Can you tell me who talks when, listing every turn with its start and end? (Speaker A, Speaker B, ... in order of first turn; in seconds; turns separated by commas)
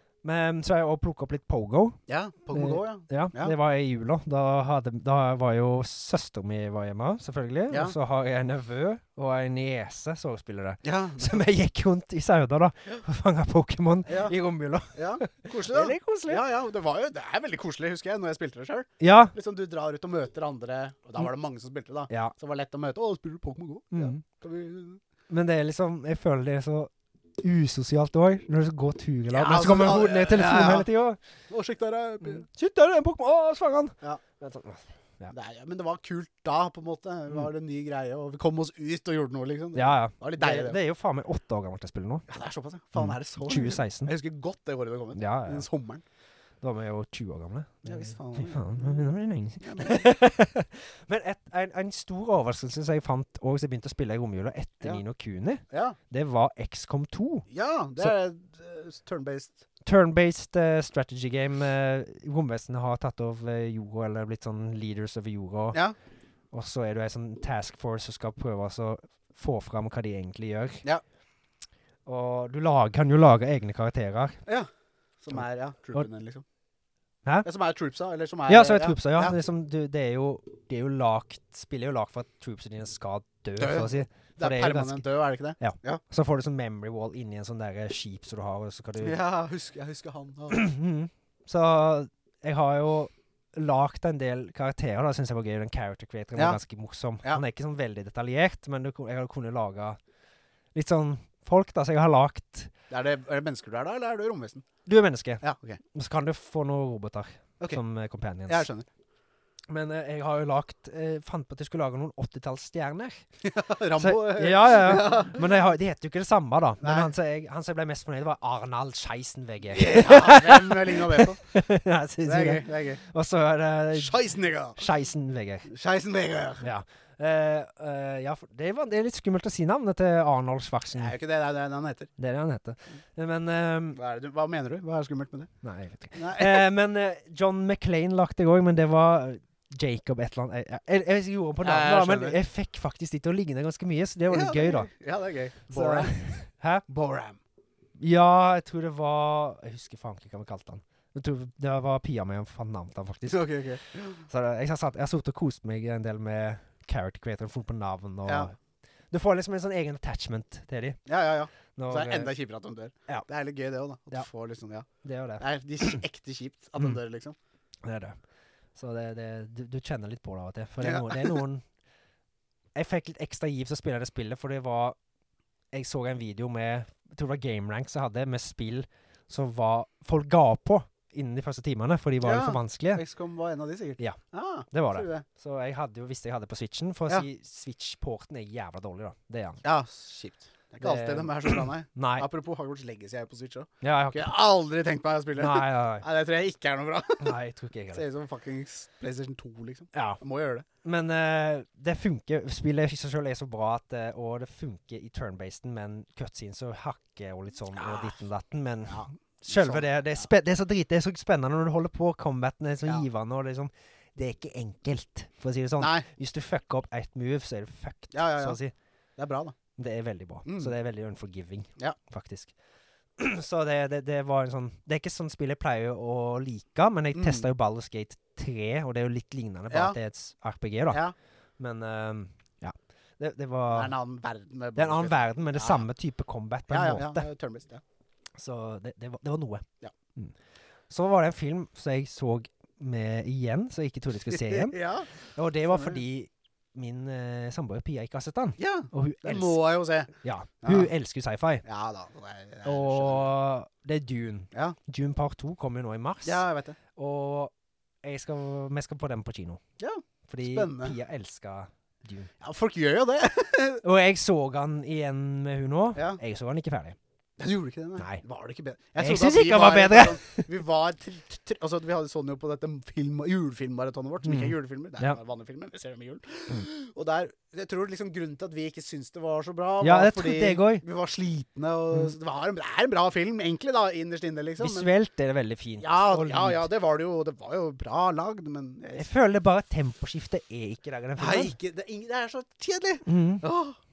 Speaker A: 0.2-2.0, Speaker B: 2.1-3.5, Speaker A: 2.5-16.4, Speaker B: 7.7-8.0, Speaker B: 10.8-11.4, Speaker B: 14.1-14.3, Speaker B: 14.9-25.0, Speaker A: 19.0-19.4, Speaker A: 23.9-24.2, Speaker A: 25.3-31.2, Speaker B: 29.3-30.9, Speaker B: 31.5-32.5, Speaker A: 32.2-35.3, Speaker B: 35.3-40.8, Speaker A: 39.8-42.3, Speaker B: 42.3-46.0, Speaker A: 43.0-44.1, Speaker A: 45.1-45.6, Speaker A: 46.6-57.5, Speaker B: 47.9-49.0, Speaker B: 49.6-50.1, Speaker B: 55.7-56.0, Speaker B: 57.5-59.6, Speaker A: 59.8-65.8, Speaker A: 66.5-70.8, Speaker A: 72.0-74.4, Speaker B: 75.2-76.4, Speaker B: 77.4-79.4, Speaker A: 78.5-85.0, Speaker B: 83.6-86.0, Speaker A: 85.6-89.2, Speaker B: 89.0-90.6, Speaker A: 90.5-100.0, Speaker A: 100.7-102.7, Speaker B: 102.9-104.7, Speaker A: 104.9-105.4, Speaker B: 105.4-105.8, Speaker A: 105.9-108.7, Speaker B: 108.5-108.9, Speaker A: 109.7-113.2, Speaker B: 113.4-115.6, Speaker A: 114.0-124.1, Speaker B: 116.8-117.1, Speaker B: 119.7-121.5, Speaker B: 122.2-123.0, Speaker B: 123.9-124.8, Speaker A: 124.8-125.7, Speaker B: 125.7-126.6, Speaker A: 126.6-131.2, Speaker B: 131.0-132.1, Speaker A: 132.2-134.0, Speaker B: 133.9-135.5, Speaker A: 135.6-144.9, Speaker B: 136.1-136.7, Speaker B: 141.6-142.4, Speaker B: 144.3-146.2, Speaker A: 145.7-146.8, Speaker B: 146.9-147.4, Speaker A: 148.0-153.5, Speaker B: 153.3-154.2, Speaker A: 154.2-158.6, Speaker B: 158.3-158.5, Speaker A: 159.1-161.1, Speaker B: 161.1-164.9, Speaker A: 161.8-162.3, Speaker A: 165.0-166.0, Speaker B: 165.4-167.4, Speaker A: 167.8-168.2, Speaker A: 168.8-171.7, Speaker B: 170.8-171.4, Speaker A: 172.8-175.0, Speaker A: 175.7-183.0, Speaker B: 182.2-185.2, Speaker A: 184.0-189.6, Speaker B: 189.6-197.3, Speaker A: 190.8-192.3, Speaker A: 193.8-194.3, Speaker A: 195.4-196.1, Speaker A: 197.2-198.0, Speaker B: 197.9-200.7, Speaker A: 199.9-200.2, Speaker A: 200.8-218.7, Speaker B: 207.7-208.2, Speaker B: 208.9-210.2, Speaker B: 215.8-216.1, Speaker B: 218.1-218.6, Speaker B: 219.2-219.6, Speaker A: 219.8-222.5, Speaker B: 220.4-220.7, Speaker A: 223.2-231.0, Speaker B: 227.1-227.5, Speaker B: 229.7-230.0, Speaker A: 231.6-233.9, Speaker B: 233.7-235.9, Speaker A: 234.8-237.3, Speaker B: 236.7-237.8, Speaker A: 238.3-239.7, Speaker A: 240.9-249.6, Speaker B: 244.3-246.0, Speaker B: 248.6-250.1, Speaker A: 250.2-251.6, Speaker B: 250.6-250.9, Speaker B: 251.6-253.3, Speaker A: 252.6-256.4, Speaker B: 254.5-254.8, Speaker B: 256.2-256.8, Speaker A: 257.0-257.5, Speaker A: 258.0-259.6, Speaker B: 259.8-260.9, Speaker A: 260.3-262.3, Speaker B: 262.4-263.8, Speaker A: 263.8-267.0, Speaker B: 265.9-266.2, Speaker B: 267.4-284.9, Speaker A: 269.0-270.5, Speaker A: 274.2-275.2, Speaker A: 279.8-280.8, Speaker A: 284.6-286.7, Speaker B: 285.8-289.1, Speaker A: 288.9-291.6, Speaker B: 291.2-293.8, Speaker A: 293.1-293.4